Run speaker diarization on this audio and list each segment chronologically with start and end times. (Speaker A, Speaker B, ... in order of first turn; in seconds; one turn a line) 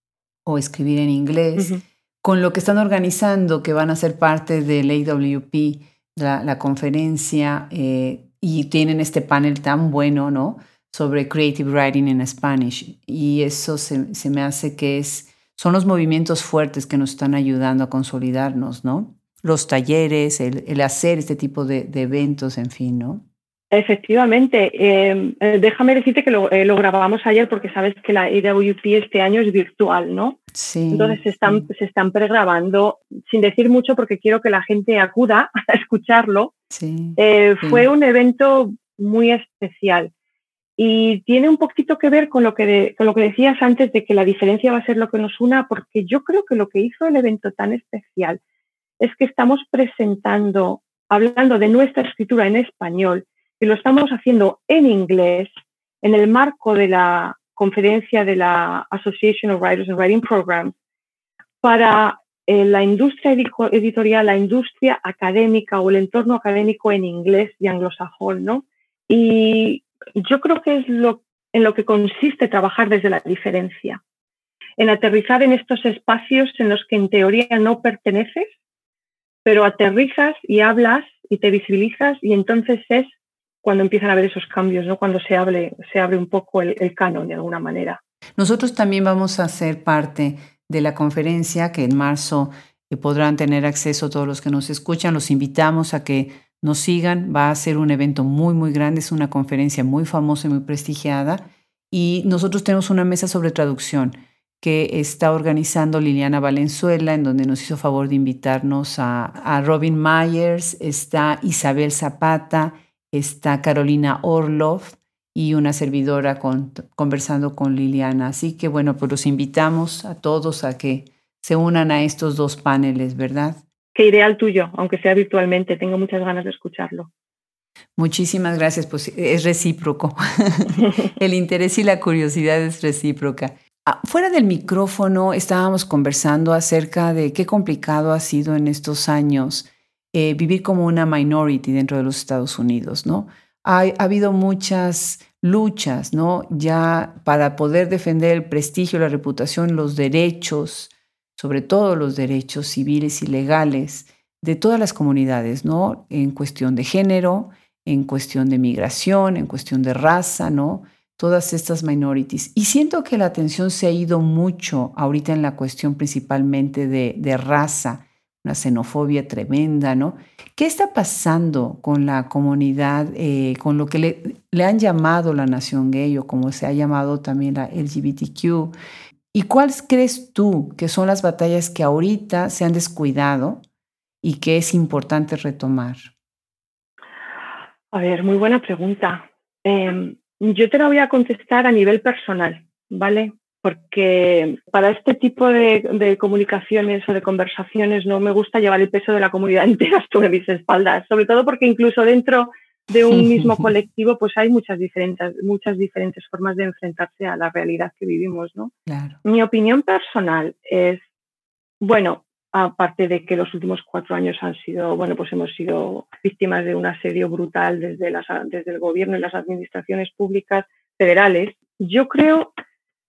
Speaker A: 0.5-23.2
Speaker B: 23.7-30.4
Speaker A: 30.5-31.7
Speaker B: 30.9-36.5
Speaker A: 36.7-37.9
Speaker B: 37.2-40.1
Speaker B: 40.8-48.4
Speaker B: 49.0-60.7
Speaker B: 61.6-74.0
Speaker B: 74.8-78.5
Speaker B: 79.4-88.0
Speaker A: 88.4-123.6
Speaker B: 123.9-127.1
Speaker A: 128.0-178.7
Speaker A: 179.3-183.6
Speaker A: 184.2-186.1
Speaker B: 187.9-208.7
Speaker A: 203.1-203.7
Speaker A: 208.9-209.2
Speaker B: 209.2-211.0
Speaker B: 211.8-222.5